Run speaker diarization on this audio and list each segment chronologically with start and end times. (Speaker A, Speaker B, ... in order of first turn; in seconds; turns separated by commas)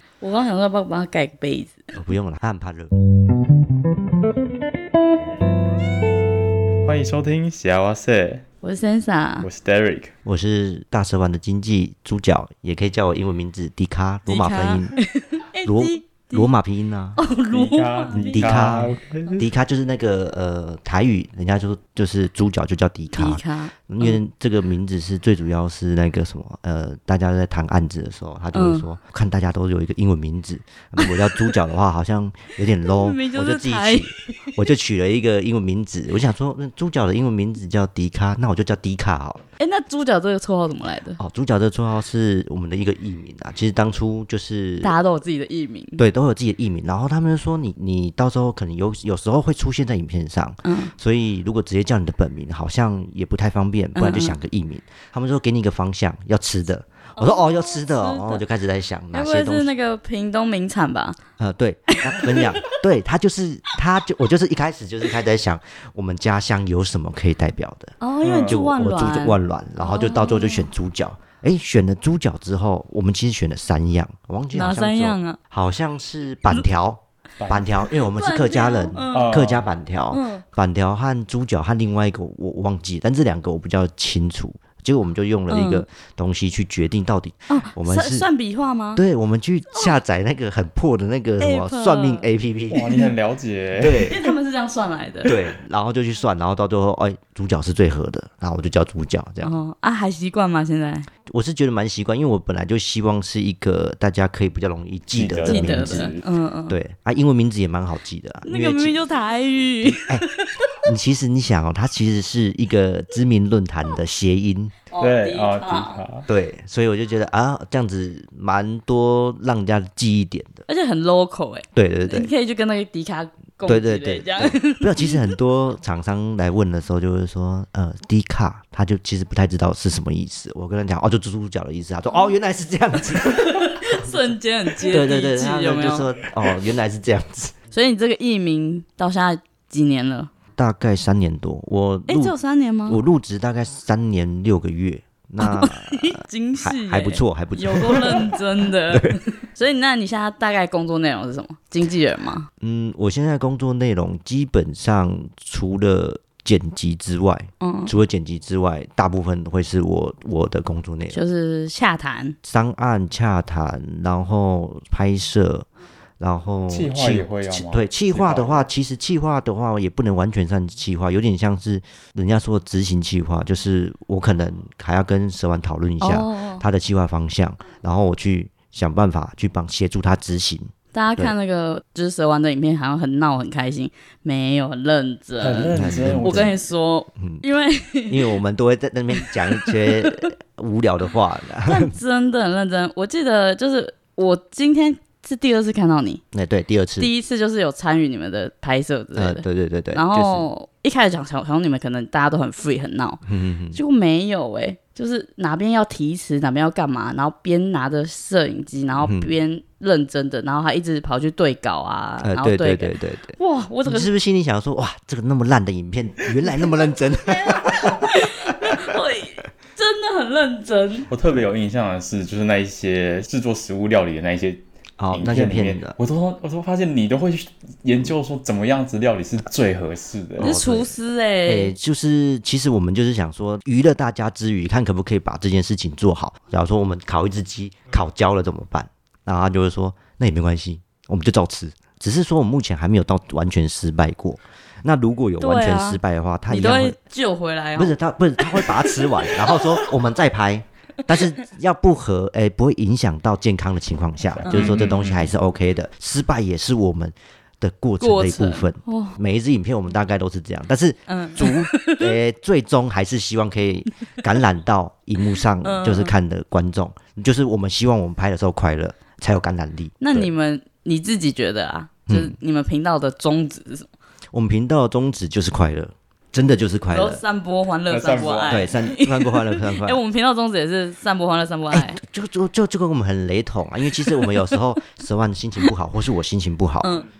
Speaker A: 0.2-1.9, Speaker B: 1.9-2.9, Speaker C: 6.8-8.4, Speaker A: 8.6-9.5, Speaker C: 9.4-10.1, Speaker B: 10.2-15.0, Speaker A: 14.3-16.5, Speaker B: 15.7-17.2, Speaker A: 17.2-18.4, Speaker C: 17.5-19.4, Speaker B: 18.3-39.5, Speaker A: 23.1-24.2, Speaker A: 28.5-28.9, Speaker A: 33.0-34.4, Speaker A: 39.6-41.2, Speaker B: 41.2-44.9, Speaker A: 44.8-46.0, Speaker B: 46.0-59.7, Speaker A: 50.6-50.9, Speaker A: 54.0-54.4, Speaker A: 57.2-58.4, Speaker A: 59.1-61.2, Speaker B: 61.4-88.3, Speaker A: 61.9-62.7, Speaker A: 68.0-70.7, Speaker C: 68.2-68.6, Speaker A: 74.5-75.4, Speaker C: 77.4-77.7, Speaker A: 78.0-79.4, Speaker C: 79.1-79.7, Speaker A: 80.1-80.4, Speaker A: 85.5-85.8, Speaker A: 87.5-89.0, Speaker B: 89.0-93.0, Speaker A: 91.4-92.2, Speaker C: 92.7-94.2, Speaker B: 93.8-94.2, Speaker A: 94.0-95.3, Speaker B: 95.2-99.5, Speaker A: 99.4-101.1, Speaker B: 101.3-106.1, Speaker C: 105.1-106.2, Speaker A: 105.5-106.8, Speaker B: 106.7-109.0, Speaker A: 108.5-110.7, Speaker B: 109.8-110.3, Speaker B: 110.8-114.8, Speaker A: 114.9-116.0, Speaker C: 115.0-116.3, Speaker B: 116.3-120.6, Speaker A: 120.7-125.3, Speaker B: 121.7-122.3, Speaker B: 123.7-137.6, Speaker A: 133.2-136.1, Speaker A: 137.7-140.3, Speaker B: 140.6-142.3, Speaker A: 142.1-143.0, Speaker B: 142.9-149.2, Speaker A: 145.4-152.5, Speaker B: 152.6-161.2, Speaker A: 157.6-157.9, Speaker A: 161.1-162.4, Speaker B: 162.4-165.7, Speaker B: 166.2-181.3, Speaker C: 166.7-168.7, Speaker A: 176.0-176.7, Speaker A: 180.9-188.3, Speaker C: 185.4-186.6, Speaker B: 185.7-186.5, Speaker B: 188.1-191.9, Speaker A: 189.2-190.3, Speaker A: 191.7-196.2, Speaker B: 196.3-197.1, Speaker A: 197.0-203.2, Speaker B: 199.2-200.5, Speaker B: 203.2-203.8, Speaker A: 203.7-214.1, Speaker B: 209.1-209.3, Speaker B: 212.2-218.9, Speaker A: 217.2-221.1, Speaker C: 221.1-230.9, Speaker B: 225.0-226.0, Speaker A: 230.4-231.7, Speaker B: 230.4-230.7, Speaker B: 231.5-247.0, Speaker A: 245.4-249.6, Speaker B: 247.8-270.3, Speaker C: 254.3-255.3, Speaker A: 254.5-254.8, Speaker A: 258.0-259.2, Speaker A: 261.1-262.2, Speaker A: 265.6-266.1, Speaker A: 270.0-273.9, Speaker B: 272.1-272.4, Speaker B: 274.3-277.2, Speaker A: 276.9-282.0, Speaker C: 277.9-278.7, Speaker B: 278.5-280.0, Speaker B: 281.7-286.9, Speaker A: 286.8-287.1